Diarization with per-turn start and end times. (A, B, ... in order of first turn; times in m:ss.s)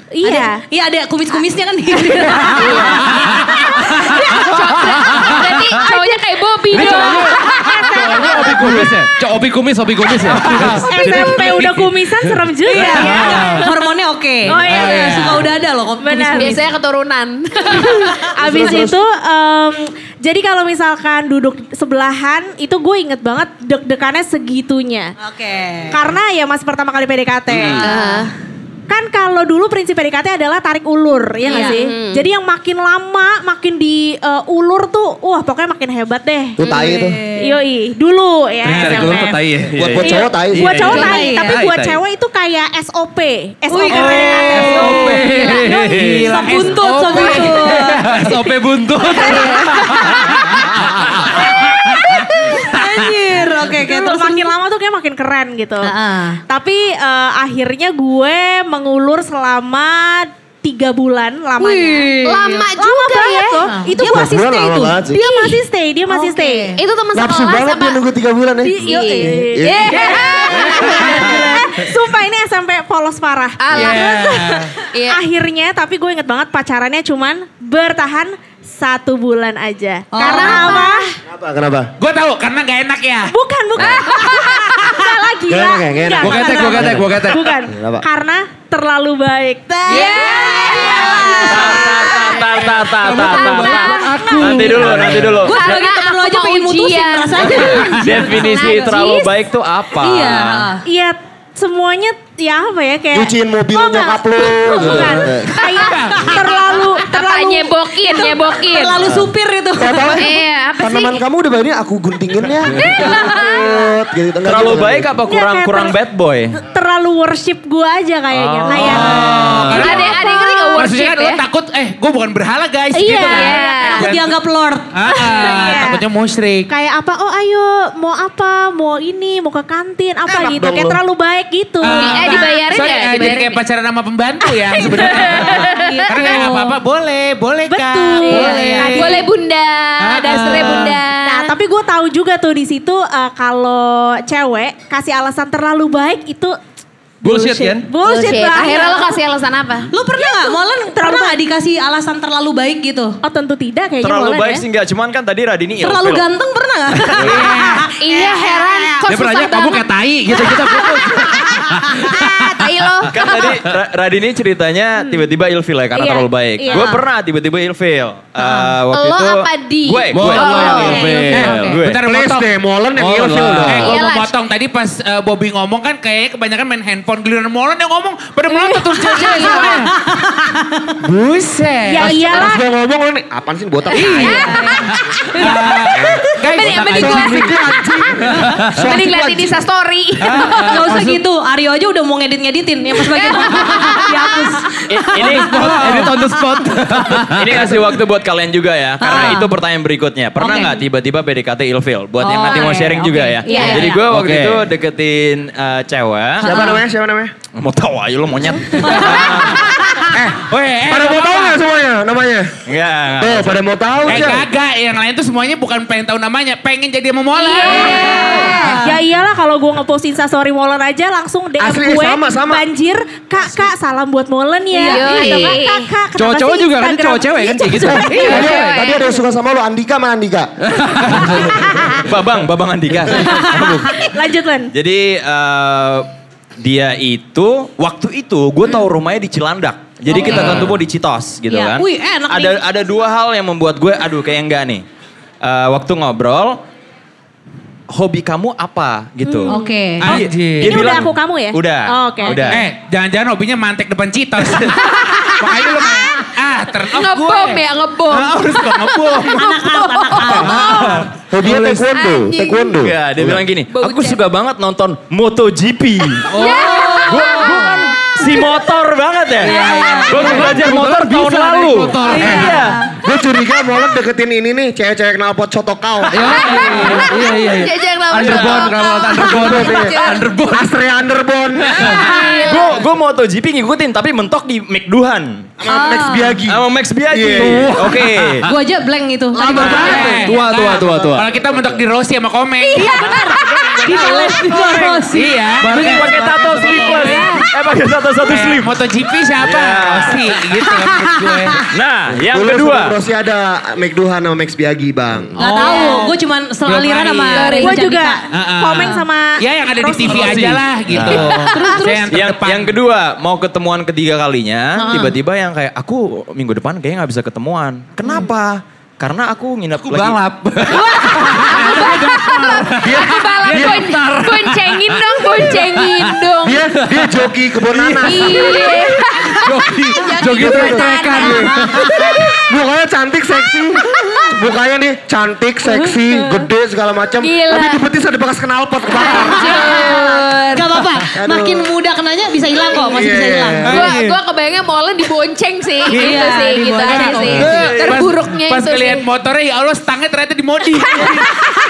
0:00.1-0:00.6 A
0:00.2-0:04.1 B
0:02.5-0:08.4 C
0:04.1-0:04.4 D
0:05.2-0:05.9 D
0:05.9-0:06.2 A
0:06.7-0:11.6 D
0:06.8-0:08.6 A
0:08.5-0:08.9 E
0:10.4-0:10.9 F
0:10.8-0:13.9 A
0:10.9-0:11.8 G
0:12.7-0:16.6 B
0:14.5-0:15.4 A
0:14.5-0:15.0 C
0:14.5-0:15.4 F
0:16.0-0:16.6 A
0:16.4-0:18.3 C
0:17.8-0:25.1 A
0:18.4-0:19.0 E
0:25.2-0:26.0 B
0:25.9-0:28.2 A
0:27.8-0:28.3 C
0:28.9-0:36.6 A
0:31.4-0:31.8 B
0:31.5-0:32.3 C
0:36.6-0:37.2 E
0:36.6-0:37.0 C
0:36.8-0:37.6 B
0:37.4-0:39.4 A
0:38.6-0:42.0 D
0:39.7-0:40.9 E
0:40.0-0:46.2 A
0:40.9-0:41.2 C
0:40.9-0:41.6 B
0:43.7-0:48.1 B
0:43.9-0:53.0 D
0:45.5-0:48.3 F
0:49.1-0:49.9 C
0:52.2-0:54.5 B
0:53.5-0:55.9 A
0:55.8-0:56.4 B
0:56.5-1:02.2 A
1:01.6-1:02.7 B
1:02.2-1:03.7 C
1:02.7-1:06.8 A
1:03.6-1:04.4 B
1:04.0-1:05.2 E
1:05.2-1:05.6 C
1:06.1-1:06.7 B
1:06.2-1:08.0 C
1:07.1-1:10.1 E
1:08.6-1:21.1 A
1:08.8-1:11.4 C
1:13.6-1:15.2 C
1:13.7-1:14.7 F
1:20.1-1:20.9 B
1:20.2-1:21.1 C
1:21.3-1:21.9 E
1:22.0-1:23.3 F
1:23.3-1:34.7 A
1:23.8-1:25.0 C
1:25.5-1:28.0 E
1:26.2-1:27.5 D
1:29.9-1:32.4 C
1:30.7-1:31.5 B
1:31.4-1:35.6 G
1:33.0-1:35.4 D
1:33.2-1:34.3 C
1:35.4-1:39.1 B
1:35.4-1:39.2 C
1:38.0-1:40.7 G
1:38.4-1:39.3 A
1:40.0-1:40.8 B
1:40.8-1:48.4 A
1:43.1-1:45.5 E
1:44.8-1:45.2 D
1:45.6-1:49.1 C
1:45.8-1:46.1 F
1:48.1-1:50.2 B
1:49.8-1:55.1 E
1:50.1-1:51.2 C
1:52.7-1:53.9 C
1:54.4-1:56.6 G
1:55.2-1:56.0 A
1:56.5-2:00.8 A
1:58.3-1:59.1 G
1:58.7-2:00.2 F
1:58.9-1:59.9 D
1:59.7-2:01.4 C
2:00.7-2:04.2 F
2:03.0-2:04.1 C
2:03.0-2:04.1 A
2:03.9-2:05.2 B
2:04.9-2:06.7 F
2:05.1-2:06.0 A
2:06.7-2:12.6 A
2:10.2-2:11.0 E
2:11.8-2:19.2 F
2:11.9-2:13.6 C
2:14.7-2:16.4 C
2:15.6-2:16.7 A
2:17.7-2:19.3 A
2:18.2-2:21.5 C
2:20.0-2:21.0 F
2:21.2-2:26.6 A
2:27.2-2:29.2 A
2:27.2-2:27.9 D
2:28.0-2:29.9 C
2:29.9-2:33.2 B
2:30.2-2:31.4 A
2:33.2-2:34.6 A
2:34.0-2:36.2 G
2:35.8-2:38.9 B
2:37.0-2:37.6 G
2:37.2-2:37.9 F
2:38.0-2:41.5 C
2:39.0-2:43.1 D
2:42.0-2:43.5 C
2:43.1-2:52.0 G
2:45.9-2:47.0 A
2:46.7-2:47.0 B
2:48.4-2:48.8 B
2:48.9-2:51.5 C
2:50.1-2:51.8 D
2:50.6-2:51.3 A
2:51.3-2:52.5 F
2:52.0-2:53.9 E
2:53.0-2:53.9 D
2:53.6-2:59.9 F
2:53.7-2:54.3 C
2:59.1-2:59.8 C
2:59.2-2:59.6 A
3:00.1-3:00.9 B
3:01.0-3:02.2 F
3:01.9-3:02.6 A
3:02.0-3:04.4 E
3:02.0-3:02.4 C
3:04.0-3:04.8 C
3:04.0-3:05.6 B
3:04.9-3:07.5 F
3:06.4-3:08.1 C
3:06.9-3:09.6 E
3:08.3-3:08.9 D
3:08.9-3:11.0 C
3:10.2-3:11.2 D
3:10.3-3:10.7 F
3:10.6-3:16.4 B
3:13.1-3:14.5 C
3:14.9-3:16.0 G
3:15.2-3:18.0 D
3:17.2-3:26.5 G
3:19.0-3:19.5 B
3:20.4-3:20.8 B
3:22.2-3:24.0 B
3:23.4-3:24.0 C
3:24.1-3:24.7 D
3:26.4-3:27.3 E
3:26.4-3:26.8 B
3:27.5-3:29.7 G
3:28.8-3:30.1 B
3:28.9-3:31.6 F
3:30.1-3:32.6 E
3:32.6-3:33.6 G
3:33.2-3:34.4 E
3:34.1-3:38.3 F
3:37.4-3:38.4 C
3:37.6-3:48.5 A
3:37.9-3:38.9 B
3:38.2-3:38.5 D
3:41.6-3:42.6 E
3:44.7-3:45.6 B
3:44.7-3:45.9 C
3:46.1-3:48.8 D
3:47.8-3:51.4 E
3:48.1-3:49.1 C
3:50.6-3:52.1 D
3:52.0-3:53.9 G
3:53.2-3:54.7 A
3:54.7-4:04.8 G
4:00.1-4:00.7 B
4:00.3-4:00.8 D
4:01.5-4:02.6 B
4:05.4-4:06.6 G
4:07.9-4:12.6 G
4:09.2-4:09.5 A
4:09.5-4:10.1 B
4:10.0-4:10.8 F
4:10.6-4:12.5 A
4:12.5-4:19.4 F
4:14.8-4:15.6 C
4:16.9-4:22.8 C
4:19.3-4:20.6 B
4:20.4-4:21.1 F
4:21.3-4:23.4 E
4:22.8-4:32.8 G
4:23.7-4:24.2 C
4:26.3-4:28.6 C
4:26.4-4:27.0 F
4:26.6-4:27.1 B
4:27.3-4:27.7 D
4:29.4-4:32.7 D
4:29.5-4:30.5 B
4:29.6-4:30.1 C
4:32.0-4:32.9 B
4:32.2-4:36.4 E
4:36.1-4:40.7 D
4:36.1-4:40.3 C
4:38.2-4:38.6 G
4:39.2-4:40.0 E
4:40.5-4:42.0 E
4:41.6-4:42.3 D
4:41.7-4:42.8 C
4:42.4-4:45.5 G
4:45.6-4:47.8 E
4:45.7-4:46.4 B
4:46.4-4:48.4 G
4:47.4-4:48.5 D
4:48.4-4:50.2 B
4:49.3-4:50.3 E
4:49.5-4:51.4 D
4:49.6-4:52.9 F
4:52.6-4:54.3 C
4:52.7-4:55.9 B
4:53.9-4:55.1 G
4:55.1-4:56.0 F
4:55.6-4:56.9 D
4:55.6-4:58.8 G
4:56.7-4:57.4 B
4:56.9-4:57.4 C
4:58.2-5:01.6 F
4:59.4-5:00.2 G
5:00.7-5:01.6 B
5:01.7-5:03.0 G
5:02.1-5:05.4 E
5:05.4-5:07.6 F
5:05.4-5:08.2 B
5:07.3-5:07.8 C
5:07.6-5:10.5 A
5:08.3-5:12.8 F
5:10.1-5:11.2 D
5:11.1-5:11.8 C
5:11.6-5:12.0 A
5:12.1-5:20.2 G
5:14.8-5:15.1 B
5:19.8-5:32.2 D
5:20.7-5:26.7 C
5:22.8-5:23.8 E
5:26.4-5:28.6 E
5:28.0-5:32.4 C
5:30.2-5:40.2 E
5:33.9-5:34.3 C
5:37.2-5:37.8 C
5:39.0-5:40.8 C
5:39.4-5:43.7 B
5:41.1-5:41.7 E
5:42.9-5:43.9 E
5:43.6-5:49.0 C
5:43.7-5:44.0 F
5:45.9-5:47.5 B
5:46.9-5:51.4 F
5:47.4-5:47.7 E
5:50.8-5:51.4 C